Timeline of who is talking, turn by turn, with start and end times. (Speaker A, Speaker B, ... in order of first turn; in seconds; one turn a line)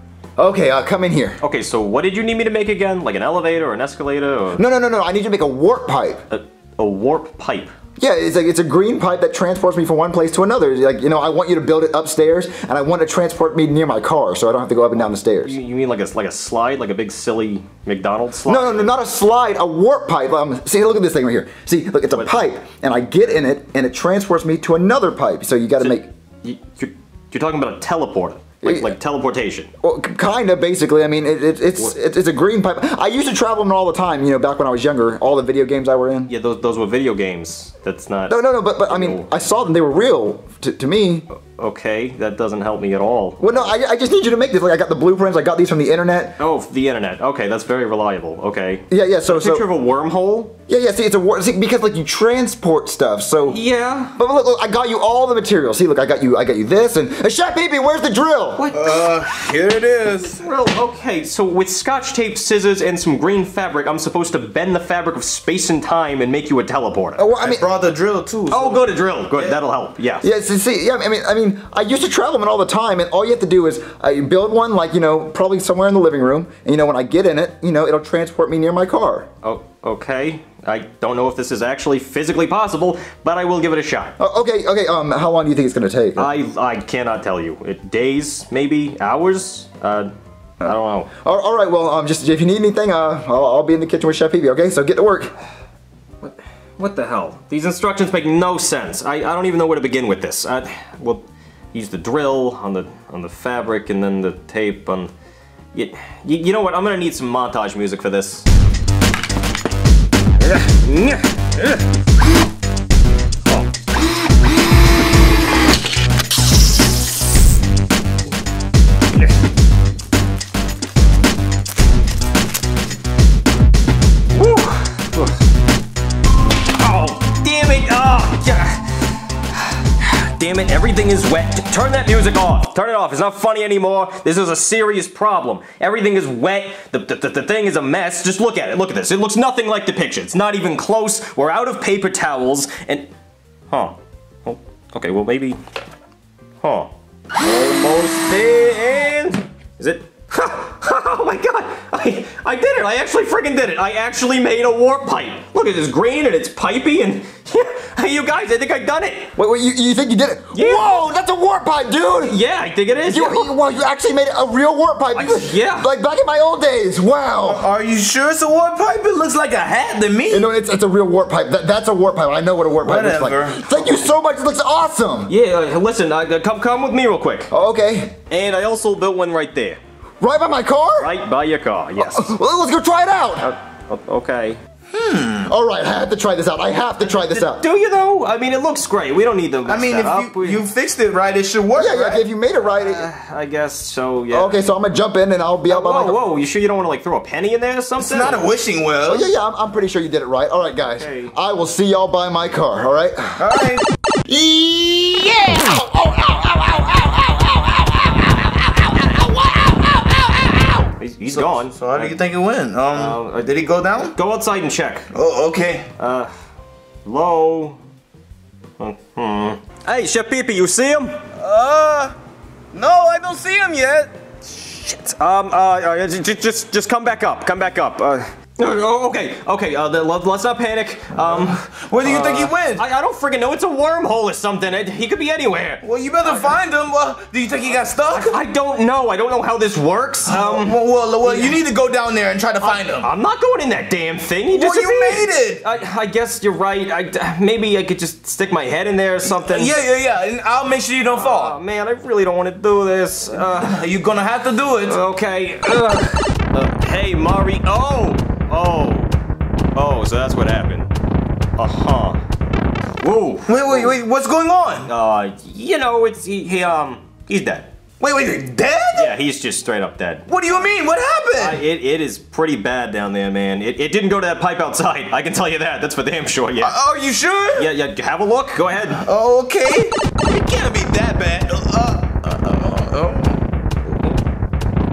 Speaker A: 0.4-1.4
Speaker B: 1.4-4.6
Speaker A: 4.6-6.2
Speaker B: 6.3-7.7
Speaker A: 8.0-15.6
Speaker B: 15.4-18.9
Speaker A: 18.5-26.1
Speaker B: 25.8-29.7
Speaker A: 28.6-29.0
Speaker A: 29.8-36.3
Speaker B: 36.3-39.3
Speaker A: 38.3-41.3
Speaker B: 41.5-43.7
Speaker A: 43.4-46.4
Speaker B: 46.4-50.6
Speaker A: 48.9-49.7
Speaker A: 50.7-53.6
Speaker B: 53.5-54.1
Speaker A: 54.1-58.7
Speaker B: 58.6-59.3
Speaker C: 58.7-60.4
Speaker B: 60.2-67.2
Speaker A: 67.2-67.7
Speaker C: 67.4-69.5
Speaker B: 68.5-70.3
Speaker A: 70.2-79.3
Speaker B: 79.4-84.2
Speaker A: 84.2-86.3
Speaker B: 86.2-91.1
Speaker A: 90.6-95.3
Speaker B: 96.2-105.1
Speaker B: 105.7-108.5
Speaker B: 110.4-111.8
Speaker B: 124.3-125.4
Speaker B: 126.8-143.1
Speaker B: 143.7-145.6
Speaker B: 146.6-159.3
Speaker A: 159.4-162.4
Speaker B: 160.5-161.0
Speaker B: 162.2-163.5
Speaker A: 163.1-167.7
Speaker B: 165.1-165.9
Speaker C: 167.4-170.5
Speaker A: 170.3-175.3
Speaker C: 172.8-173.8
Speaker B: 175.3-177.5
Speaker A: 177.5-178.2
Speaker B: 178.3-179.8
Speaker A: 180.2-181.1
Speaker B: 181.0-182.3
Speaker A: 182.0-183.5
Speaker B: 183.4-184.6
Speaker C: 184.9-185.5
Speaker A: 185.5-187.6
Speaker B: 187.0-190.6
Speaker C: 189.7-192.2
Speaker A: 191.8-193.1
Speaker B: 192.6-194.7
Speaker A: 194.3-196.2
Speaker B: 195.7-198.5
Speaker C: 198.0-199.3
Speaker A: 199.1-203.5
Speaker B: 200.8-201.3
Speaker C: 203.4-203.8
Speaker A: 204.3-210.7
Speaker B: 210.9-212.2
Speaker C: 211.3-214.2
Speaker B: 212.9-213.6
Speaker B: 214.1-215.1
Speaker C: 215.1-215.9
Speaker B: 216.0-216.3
Speaker B: 217.1-217.8
Speaker B: 218.8-221.2
Speaker C: 221.4-222.2
Speaker C: 222.7-224.1
Speaker B: 224.6-236.6
Speaker C: 231.2-232.8
Speaker C: 235.8-238.4
Speaker B: 238.0-241.6
Speaker C: 240.3-243.1
Speaker B: 242.6-249.8
Speaker C: 244.5-245.6
Speaker C: 249.3-251.6
Speaker B: 251.1-253.9
Speaker C: 253.4-255.0
Speaker B: 254.8-259.1
Speaker B: 259.8-260.9
Speaker B: 261.6-262.2
Speaker B: 263.0-264.0
Speaker C: 263.5-264.9
Speaker B: 264.9-267.7
Speaker C: 268.0-269.1
Speaker B: 268.9-270.7
Speaker C: 270.3-271.6
Speaker B: 271.4-276.8
Speaker C: 276.6-277.7
Speaker B: 277.6-279.1
Speaker C: 279.0-284.2